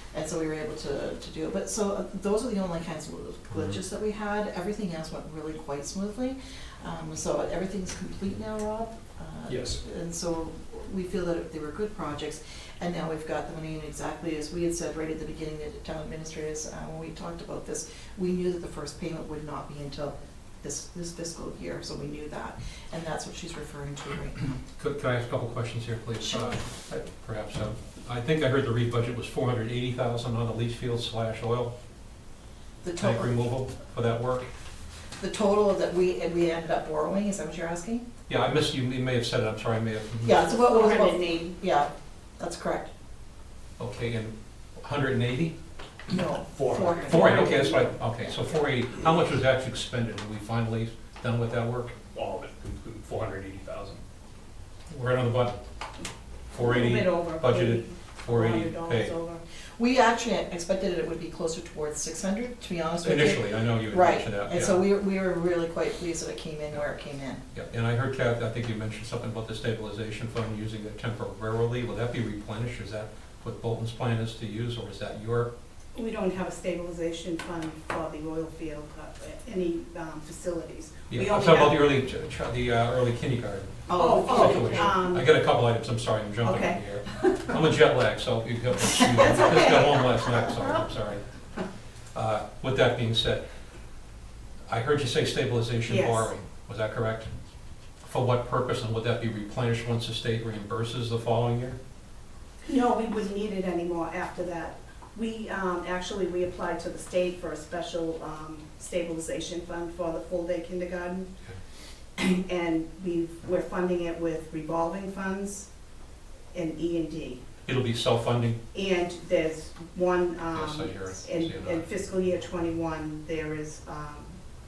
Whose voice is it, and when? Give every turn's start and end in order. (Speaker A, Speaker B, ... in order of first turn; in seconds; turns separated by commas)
Speaker A: 0.1-24.6, Speaker B: 9.5-9.8, Speaker C: 24.8-31.7, Speaker A: 32.8-33.4, Speaker C: 33.0-34.5, Speaker A: 35.2-38.0, Speaker C: 38.3-40.5, Speaker A: 40.2-42.9, Speaker D: 40.9-41.5, Speaker C: 43.8-45.6, Speaker A: 46.1-48.0, Speaker B: 46.5-47.4, Speaker C: 47.0-52.0, Speaker B: 52.1-54.0, Speaker C: 54.9-55.6, Speaker C: 56.5-59.1, Speaker A: 59.8-67.4, Speaker C: 63.0-64.8, Speaker C: 67.5-75.5, Speaker D: 76.0-80.8, Speaker C: 81.1-91.2, Speaker A: 83.9-85.0, Speaker D: 84.0-84.3, Speaker A: 89.3-89.8, Speaker C: 92.1-93.4, Speaker C: 94.7-97.4, Speaker C: 98.0-101.8, Speaker D: 103.5-104.8, Speaker D: 105.3-109.4, Speaker D: 110.0-111.1, Speaker D: 112.8-115.6, Speaker D: 116.7-117.3, Speaker C: 117.7-118.6, Speaker D: 118.9-120.3, Speaker C: 120.5-121.9, Speaker D: 121.7-124.2